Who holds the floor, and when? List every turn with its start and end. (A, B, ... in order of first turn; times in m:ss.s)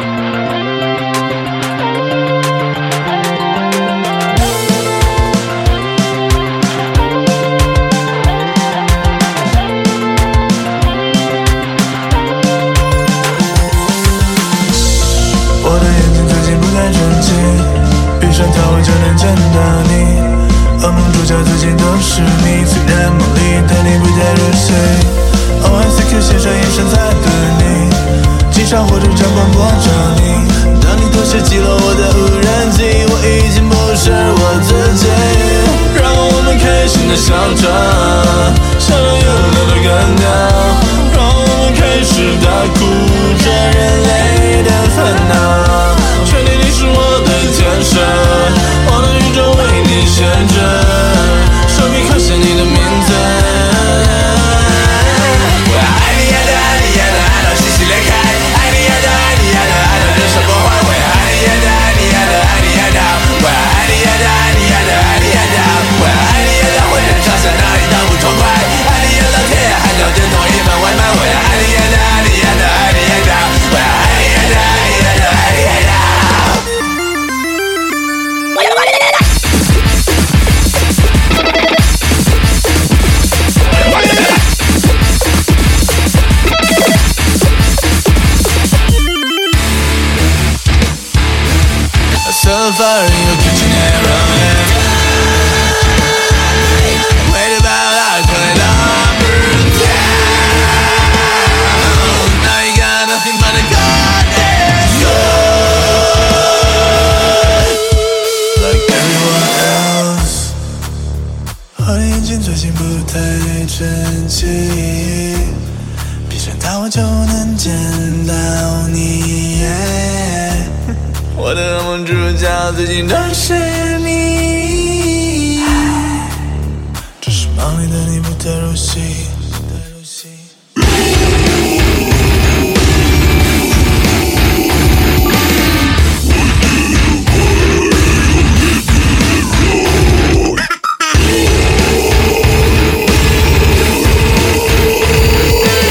0:15.6-1:16.6 A
1:32.2-1:35.1 A
1:36.8-1:47.6 A
1:48.5-1:50.6 A
1:51.8-1:55.7 A
1:56.3-2:06.4 A
2:07.2-2:10.5 A